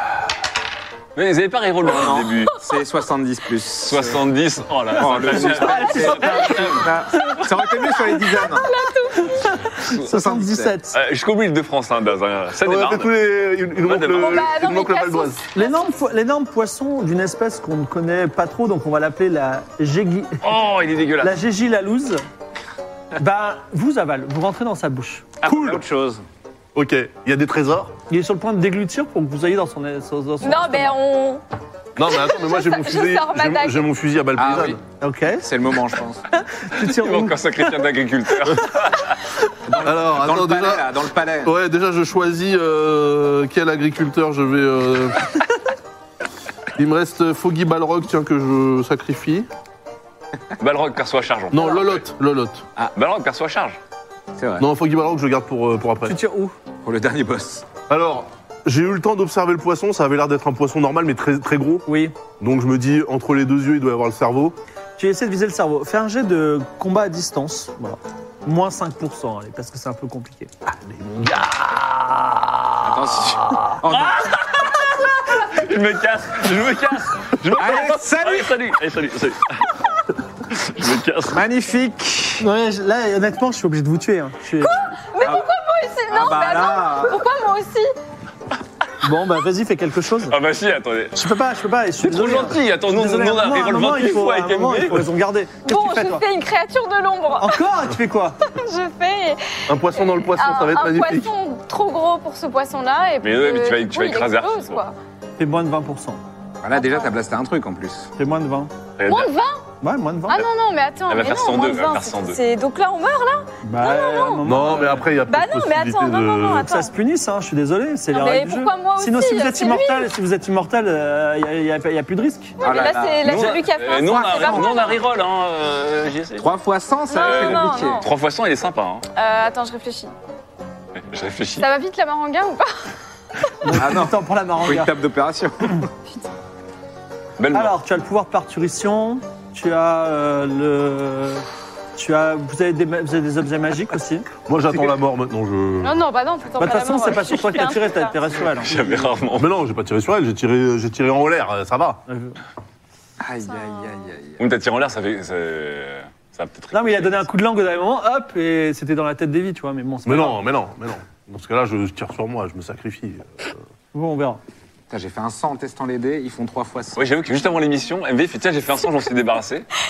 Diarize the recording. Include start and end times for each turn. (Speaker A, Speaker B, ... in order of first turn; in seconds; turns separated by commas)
Speaker A: 1.2-2.6, Speaker B: 1.9-4.2, Speaker A: 3.8-7.0, Speaker B: 4.9-8.7, Speaker C: 5.0-6.7, Speaker D: 8.1-9.5, Speaker C: 9.2-11.0, Speaker B: 9.9-10.8, Speaker A: 10.9-13.1, Speaker E: 12.6-15.5, Speaker A: 13.8-14.5, Speaker D: 14.1-15.8, Speaker C: 15.5-20.5, Speaker A: 20.4-21.4, Speaker C: 21.2-22.2, Speaker C: 23.2-25.4, Speaker B: 25.4-26.2, Speaker E: 26.8-27.9, Speaker C: 28.1-30.9, Speaker D: 30.4-31.4, Speaker E: 32.0-34.8, Speaker D: 32.1-33.9, Speaker B: 34.4-34.8, Speaker C: 35.0-35.5, Speaker B: 35.4-36.2, Speaker C: 36.6-37.8, Speaker A: 36.8-39.2, Speaker B: 39.7-41.5, Speaker E: 39.8-40.9, Speaker E: 41.4-45.3, Speaker E: 46.8-49.5, Speaker A: 50.6-52.0, Speaker E: 51.5-52.6, Speaker A: 52.9-53.8, Speaker B: 54.4-54.7, Speaker E: 54.6-56.2, Speaker C: 56.1-56.5, Speaker B: 56.8-57.7, Speaker E: 57.9-61.9, Speaker C: 61.9-62.1, Speaker E: 62.4-64.6, Speaker C: 65.0-70.5, Speaker E: 70.7-71.9, Speaker B: 72.8-74.3, Speaker A: 73.9-81.4, Speaker B: 77.5-78.5, Speaker B: 81.3-82.5, Speaker C: 82.4-84.8, Speaker D: 84.6-87.9, Speaker B: 85.2-85.5, Speaker B: 86.1-87.2, Speaker C: 89.0-90.4, Speaker A: 90.3-91.2, Speaker C: 91.1-96.2, Speaker A: 92.0-95.1, Speaker D: 95.7-97.6, Speaker C: 97.4-98.4, Speaker D: 98.5-105.0, Speaker E: 99.7-101.3, Speaker A: 103.2-104.8, Speaker C: 105.4-106.2, Speaker B: 106.6-108.1, Speaker D: 106.8-107.1, Speaker C: 108.2-108.7, Speaker A: 109.0-109.3, Speaker D: 109.0-109.7, Speaker C: 109.8-110.5, Speaker D: 110.3-114.5, Speaker A: 111.1-112.4, Speaker C: 113.6-115.1, Speaker E: 114.4-116.7, Speaker D: 115.3-116.9, Speaker C: 116.6-122.6, Speaker D: 118.1-120.1, Speaker D: 122.6-125.0, Speaker B: 122.6-124.9, Speaker A: 123.2-126.5, Speaker B: 126.4-128.0, Speaker D: 127.1-128.1, Speaker A: 127.1-129.1, Speaker D: 129.2-130.1, Speaker A: 131.0-131.7, Speaker D: 131.6-132.9, Speaker C: 133.6-134.9, Speaker B: 133.7-135.9, Speaker A: 137.4-137.8, Speaker C: 137.5-141.4, Speaker C: 142.0-144.3, Speaker E: 144.5-146.0, Speaker D: 145.8-148.2, Speaker C: 146.6-149.1, Speaker A: 148.6-149.5, Speaker E: 149.3-152.0, Speaker C: 152.1-152.4, Speaker B: 153.2-154.4, Speaker A: 154.4-157.2, Speaker C: 156.7-160.4, Speaker E: 160.1-163.6, Speaker C: 163.9-164.4, Speaker B: 164.9-167.1, Speaker A: 167.0-169.7